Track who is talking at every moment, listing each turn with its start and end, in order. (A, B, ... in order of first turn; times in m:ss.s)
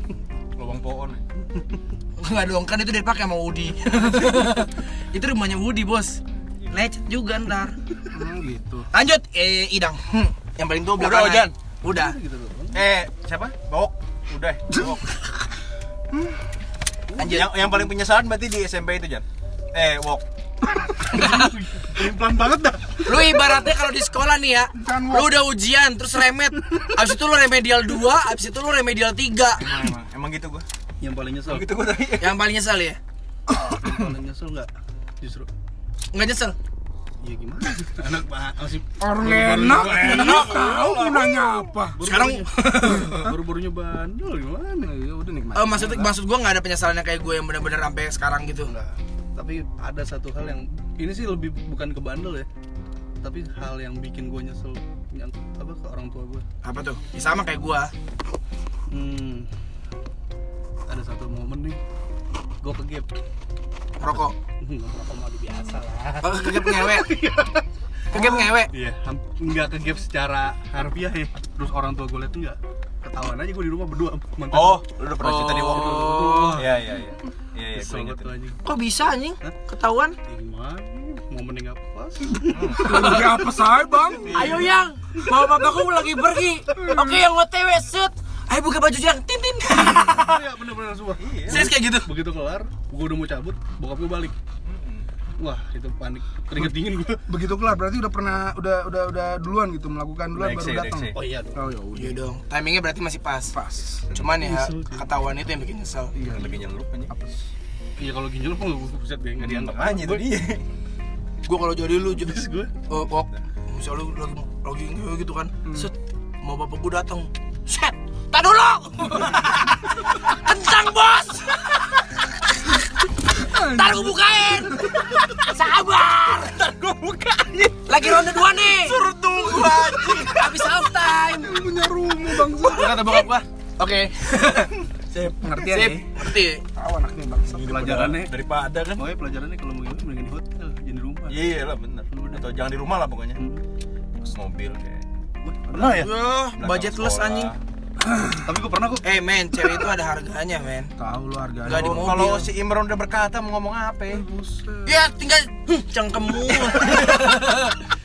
0:00.6-0:01.2 A
0:02.2-0:07.8 B
0:08.1-0:08.9 C
0:08.9-0:12.2 B
0:11.0-0:11.5 A
0:11.9-0:12.8 D
0:12.7-0:15.1 A
0:14.7-0:15.0 C
0:17.1-0:17.9 D
0:17.2-0:17.5 B
0:17.2-0:20.2 A
0:21.0-0:23.6 D
0:21.1-0:21.6 B
0:23.0-0:29.7 B
0:24.8-0:25.4 C
0:29.6-0:30.7 A
0:31.0-0:31.7 D
0:31.5-0:32.4 A
0:32.2-0:33.0 B
0:33.7-0:34.7 D
0:35.2-0:35.5 D
0:36.1-0:36.6 B
0:37.2-0:40.5 D
0:39.0-0:42.0 C
0:39.8-0:41.6 A
0:41.9-0:44.9 D
0:42.0-0:43.3 B
0:42.8-0:43.3 C
0:44.8-0:46.1 C
0:45.5-0:48.7 B
0:48.6-0:52.5 D
0:53.2-0:56.4 D
0:56.6-0:57.9 B
0:58.9-0:59.5 D
1:00.9-1:01.8 D
1:02.6-1:03.2 D
1:04.0-1:04.4 B
1:04.6-1:14.8 D
1:06.2-1:07.2 B
1:08.1-1:08.7 B
1:14.5-1:18.4 A
1:15.2-1:16.6 B
1:15.7-1:16.8 D
1:17.7-1:18.6 D
1:18.6-1:20.2 B
1:20.3-1:23.5 D
1:22.5-1:23.2 A
1:22.8-1:24.4 C
1:24.2-1:24.7 A
1:24.3-1:30.4 B
1:29.8-1:34.3 D
1:31.2-1:31.7 A
1:31.5-1:32.1 B
1:34.6-1:35.1 A
1:35.4-1:37.2 D
1:37.3-1:42.2 C
1:40.4-1:41.2 A
1:41.1-1:41.7 D
1:41.9-1:43.6 B
1:43.5-1:44.1 C
1:44.1-1:46.2 B
1:44.1-1:45.1 D
1:46.1-1:47.5 C
1:46.3-1:47.1 A
1:48.0-1:50.4 D
1:49.4-1:50.6 A
1:51.4-2:02.0 B
1:52.2-1:52.7 D
1:55.6-1:55.9 C
2:03.4-2:04.9 C
2:03.4-2:06.6 B
2:06.4-2:07.8 A
2:07.9-2:11.7 B
2:08.9-2:10.3 C
2:08.9-2:10.1 A
2:11.3-2:13.2 C
2:12.6-2:16.6 B
2:15.4-2:16.1 C
2:16.8-2:17.9 C
2:17.5-2:19.1 A
2:17.7-2:18.4 D
2:19.0-2:21.4 D
2:21.3-2:23.4 A
2:22.1-2:22.4 D
2:23.4-2:23.6 D
2:24.2-2:25.0 A
2:25.4-2:26.1 D
2:25.8-2:27.5 B
2:26.6-2:27.6 A
2:28.4-2:29.0 D
2:29.0-2:30.9 B
2:31.0-2:32.3 C
2:31.6-2:32.5 B
2:31.7-2:34.2 A
2:34.2-2:34.9 C
2:34.8-2:37.8 B